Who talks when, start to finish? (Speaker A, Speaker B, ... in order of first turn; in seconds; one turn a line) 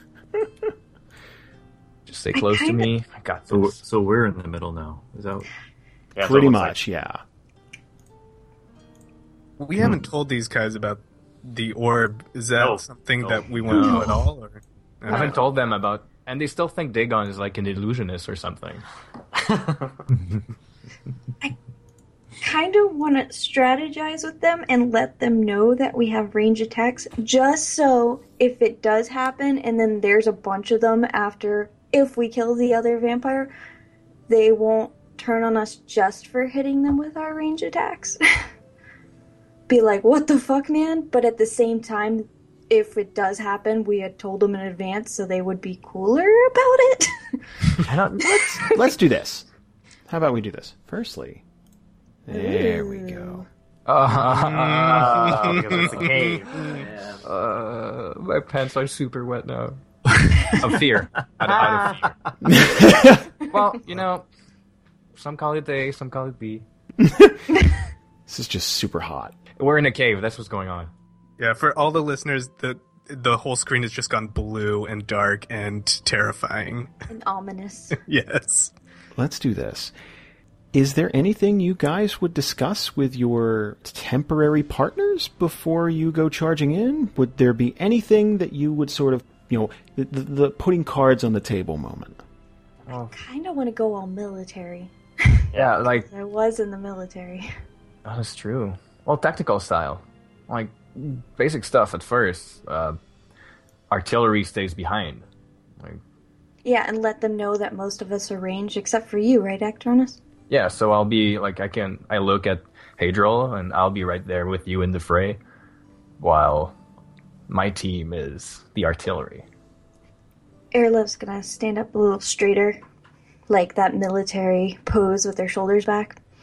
Speaker A: 2.1-3.8
Speaker B: 2.3-2.9
Speaker C: 3.5-5.5
Speaker D: 6.2-6.8
Speaker E: 6.2-7.2
Speaker F: 9.6-15.4
Speaker D: 12.6-14.1
Speaker B: 13.9-14.2
Speaker A: 15.1-18.8
Speaker B: 15.1-15.4
Speaker D: 19.5-19.9
Speaker B: 22.4-33.5
Speaker B: 34.3-38.2
Speaker B: 39.7-47.4
Speaker E: 48.1-49.5
Speaker B: 48.3-48.7
Speaker E: 50.1-51.4
Speaker E: 52.2-53.5
Speaker B: 52.3-53.4
Speaker A: 53.9-55.8
Speaker D: 54.1-57.2
Speaker A: 57.2-64.3
Speaker D: 61.4-62.0
Speaker E: 62.5-63.3
Speaker A: 65.2-66.6
Speaker E: 67.0-67.5
Speaker E: 68.3-69.4
Speaker A: 69.6-70.9
Speaker F: 71.4-76.9
Speaker B: 77.1-78.0
Speaker F: 78.0-78.7
Speaker E: 79.2-79.9
Speaker E: 80.7-92.2
Speaker A: 92.9-93.1
Speaker B: 93.0-97.5
Speaker D: 95.5-95.8
Speaker A: 95.5-96.1
Speaker A: 98.0-103.0
Speaker A: 103.9-105.2
Speaker B: 106.6-110.2
Speaker A: 110.5-115.4
Speaker A: 116.2-116.8
Speaker A: 117.5-119.5
Speaker B: 120.7-122.8
Speaker B: 123.5-126.2